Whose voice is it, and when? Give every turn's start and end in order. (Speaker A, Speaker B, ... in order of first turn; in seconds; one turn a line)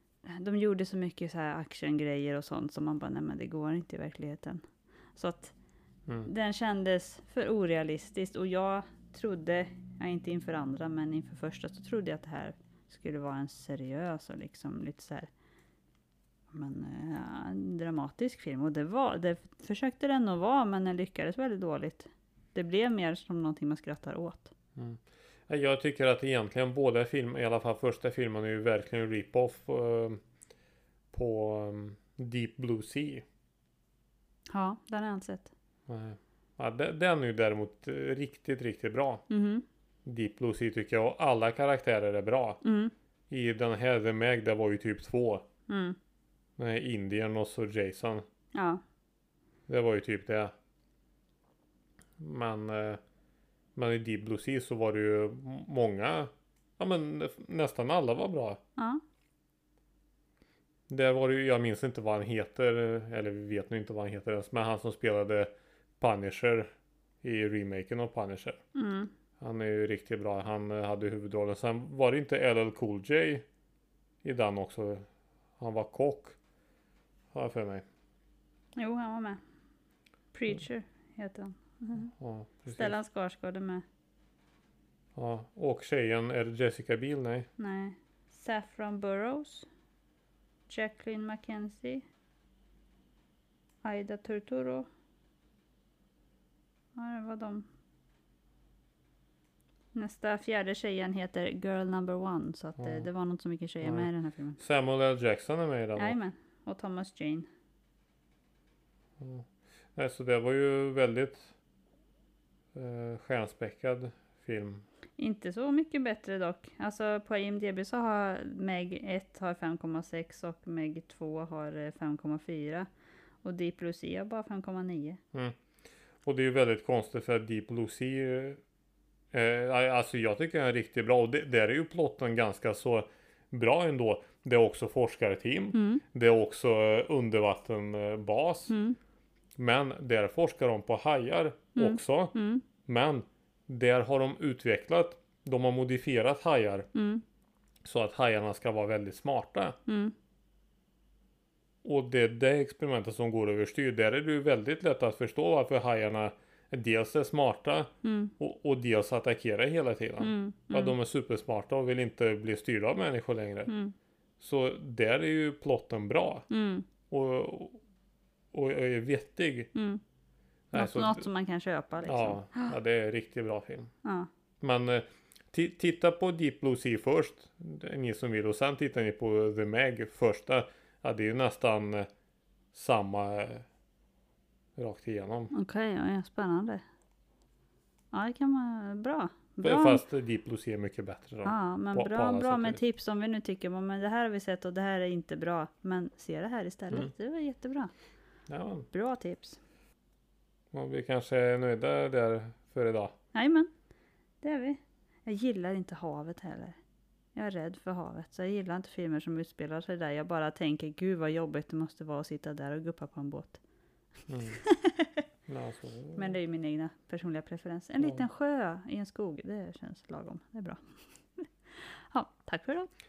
Speaker A: 0.2-4.6
Speaker A: 5.2-5.5
Speaker A: 6.2-15.3
Speaker A: 16.5-24.5
Speaker B: 24.8-30.2
Speaker B: 31.1-33.2
Speaker A: 34.5-35.5
Speaker B: 35.9-39.2
Speaker A: 39.3-39.6
Speaker B: 40.0-42.6
Speaker A: 42.6-42.9
Speaker B: 43.3-45.4
Speaker A: 45.7-46.0
Speaker B: 46.6-48.2
Speaker A: 48.5-48.8
Speaker B: 49.7-50.5
Speaker B: 52.2-53.0
Speaker B: 53.7-58.6
Speaker B: 60.9-66.7
Speaker B: 67.2-68.6
Speaker A: 68.7-69.1
Speaker B: 69.4-73.4
Speaker B: 74.2-75.0
Speaker B: 75.6-76.4
Speaker B: 77.3-77.8
Speaker A: 78.8-79.4
Speaker A: 80.3-82.1
Speaker B: 82.1-83.0
Speaker A: 82.7-83.8
Speaker B: 85.2-87.5
Speaker A: 87.6-89.7
Speaker A: 90.7-92.0
Speaker A: 93.8-94.9
Speaker A: 96.9-97.7
Speaker A: 99.9-104.6
Speaker B: 102.8-103.0
Speaker B: 103.8-106.2
Speaker A: 106.0-107.5
Speaker B: 109.2-111.5
Speaker B: 112.7-114.8
Speaker A: 115.2-122.9
Speaker A: 123.4-125.2
Speaker B: 126.2-128.6
Speaker B: 129.3-138.7
Speaker A: 135.7-136.0
Speaker A: 138.7-139.0
Speaker B: 139.6-142.3
Speaker A: 141.8-142.6
Speaker B: 142.8-146.9
Speaker A: 146.9-147.2
Speaker B: 147.8-149.8
Speaker A: 149.9-150.1
Speaker B: 151.8-163.7
Speaker A: 158.0-158.3
Speaker A: 160.2-160.9
Speaker A: 163.7-163.9
Speaker B: 164.4-166.5
Speaker A: 166.5-166.9
Speaker B: 167.1-167.8
Speaker B: 168.5-169.7
Speaker A: 169.7-170.0
Speaker B: 170.7-171.2
Speaker A: 170.7-172.8
Speaker B: 172.0-173.9
Speaker A: 174.0-174.3
Speaker B: 174.6-182.1
Speaker B: 182.7-183.6
Speaker B: 184.8-185.5
Speaker A: 185.5-186.8
Speaker A: 188.1-190.0
Speaker B: 189.6-192.8
Speaker A: 191.4-197.9
Speaker B: 198.5-198.9
Speaker A: 198.9-199.6
Speaker B: 200.7-203.1
Speaker A: 203.3-203.7
Speaker A: 204.4-206.8
Speaker A: 207.3-213.6
Speaker B: 214.3-214.6
Speaker A: 214.6-215.1
Speaker B: 215.5-216.3
Speaker A: 216.1-220.8
Speaker A: 221.4-222.9